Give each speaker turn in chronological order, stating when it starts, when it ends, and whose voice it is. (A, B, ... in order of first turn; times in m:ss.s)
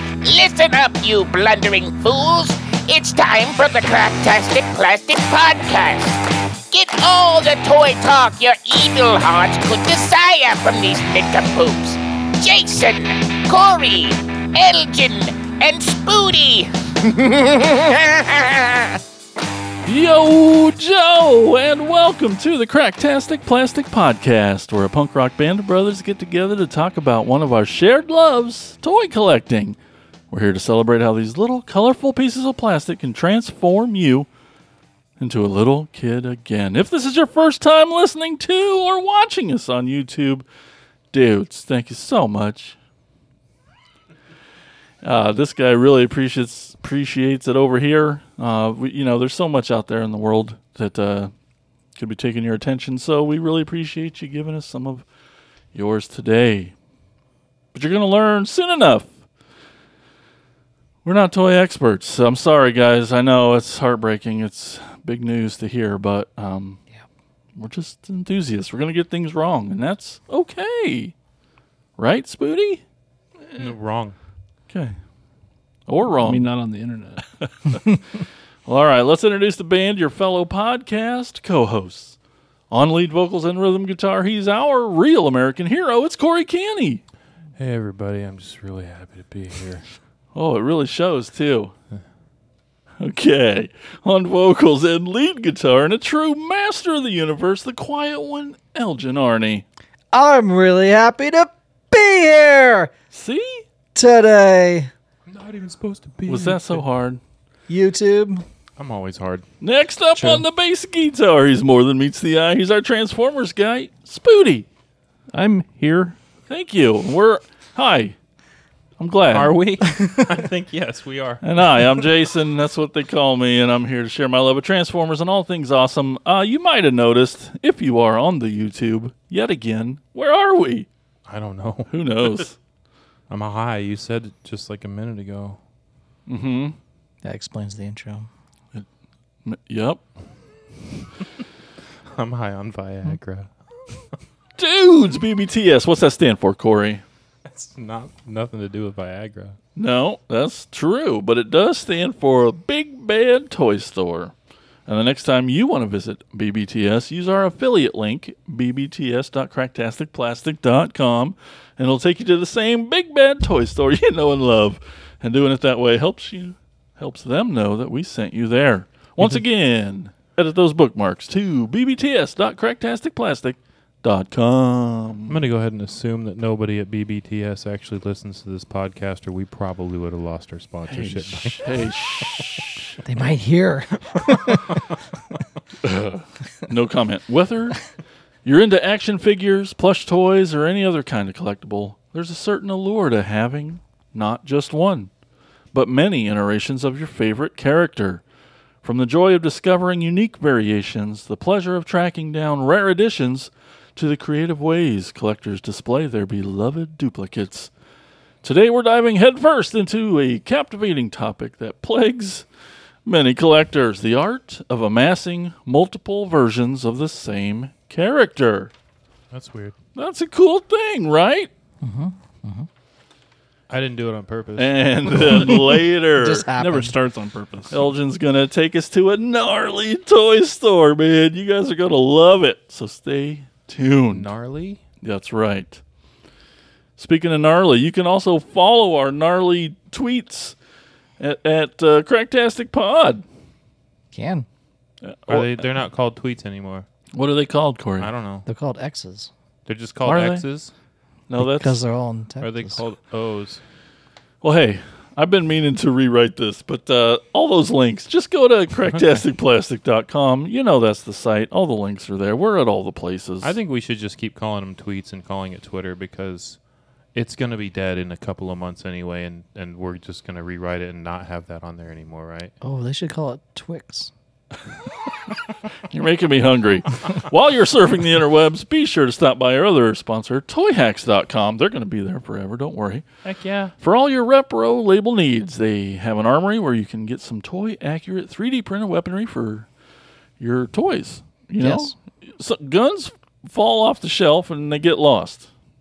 0:00.2-0:19.0 A
0:19.8-0:29.8 B
0:30.3-0:34.3 B
0:35.2-0:40.4 B
0:41.1-0:42.8 B
0:45.0-0:51.3 B
0:52.0-0:55.0 B
0:55.7-0:56.7 B
0:57.7-0:59.2 B
1:01.0-1:06.8 B
1:07.6-1:11.1 B
1:12.0-1:12.8 B
1:13.6-1:14.2 C
1:14.7-1:15.0 B
1:15.9-1:16.5 B
1:16.2-1:17.2 D
1:17.4-1:18.0 B
1:18.6-1:22.1 B
1:22.7-1:27.0 B
1:27.6-1:29.9 C
1:30.3-1:31.7 B
1:33.0-1:39.6 B
1:40.1-1:42.9 E
1:43.1-1:43.6 B
1:43.9-1:44.9 E
1:45.3-1:46.8 C
1:46.3-1:47.2 B
1:47.7-1:48.4 E
1:48.8-1:49.4 C
1:49.6-1:54.6 B
1:50.1-1:50.4 E
1:55.3-1:56.2 D
1:56.5-1:58.2 B
1:59.0-1:59.6 B
1:59.3-2:02.0 C
2:00.0-2:00.3 E
2:01.4-2:10.9 B
2:11.3-2:11.9 C
2:11.9-2:12.6 B
2:13.3-2:15.6 C
2:16.3-2:16.8 B
2:17.2-2:18.3 E
2:19.4-2:20.0 B
2:22.1-2:23.5 C
2:24.6-2:27.0 B
2:27.4-2:29.6 C
2:29.8-2:34.3 B
2:34.9-2:55.4 B
2:55.3-3:01.6 C
3:00.9-3:02.8 B
3:03.0-3:04.8 E
3:05.8-3:07.9 B
3:08.4-3:15.1 B
3:15.7-3:18.2 B
3:18.8-3:27.7 B
3:28.4-3:32.4 B
3:33.0-3:38.7 B
3:39.3-3:39.8 C
3:39.9-3:41.5 B
3:41.8-3:42.7 E
3:43.7-3:45.2 C
3:44.6-3:46.5 B
3:45.4-3:47.0 E
3:46.5-3:47.8 D
3:47.7-3:54.3 B
3:54.1-3:54.8 C
3:55.0-3:55.8 B
3:57.0-4:00.5 B
4:01.2-4:03.2 B
4:04.1-4:04.5 E
4:05.0-4:05.5 B
4:05.3-4:06.9 C
4:07.1-4:08.1 B
4:08.0-4:08.5 C
4:08.4-4:09.3 E
4:09.6-4:10.7 C
4:10.0-4:10.4 B
4:11.3-4:11.8 B
4:11.4-4:12.8 E
4:12.4-4:13.6 C
4:14.4-4:23.6 B
4:23.4-4:26.6 C
4:27.1-4:32.5 C
4:32.6-4:34.1 E
4:35.9-4:43.0 B
4:43.2-4:43.7 C
4:43.8-4:49.7 B
4:50.4-4:55.5 B
4:51.6-4:51.9 E